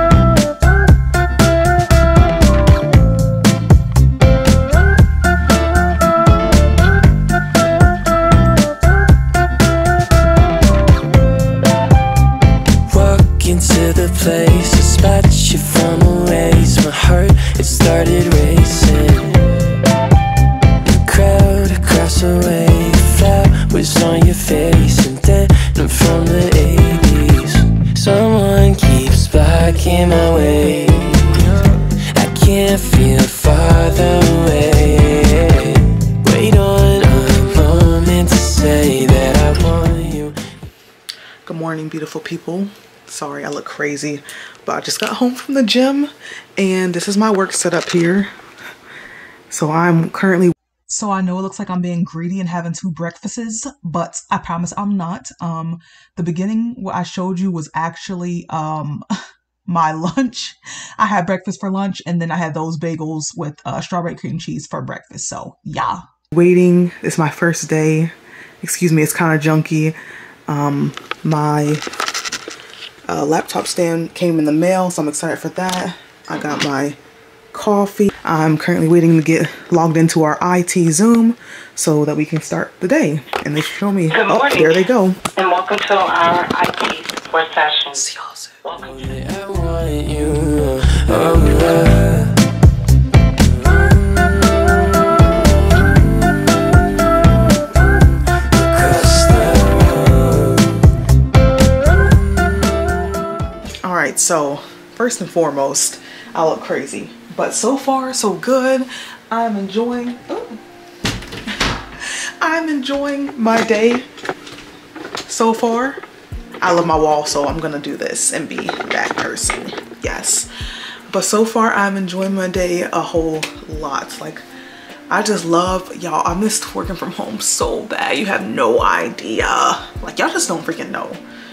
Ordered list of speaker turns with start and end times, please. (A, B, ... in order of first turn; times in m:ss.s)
0:12.9-0:19.3 A
0:13.1-0:13.9 B
0:14.5-0:18.7 B
0:21.0-0:31.6 B
0:25.6-0:25.9 A
0:30.7-0:31.0 A
0:32.1-0:40.4 B
0:41.4-0:48.3 C
0:49.5-0:59.0 C
0:59.7-1:10.0 C
1:10.5-1:11.8 C
1:13.1-1:17.0 C
1:17.5-1:25.2 C
1:24.1-1:24.8 D
1:25.3-1:28.0 D
1:27.9-1:28.6 C
1:28.6-1:29.0 D
1:29.0-1:29.4 A
1:29.3-1:30.8 B
1:30.0-1:32.3 A
1:31.4-1:31.9 B
1:38.7-1:39.6 B
1:38.9-1:40.8 A
1:43.8-1:50.6 C
1:52.0-1:54.0 C
1:55.2-1:56.0 C
1:56.6-2:00.5 C
2:01.1-2:04.4 C
2:05.1-2:11.2 C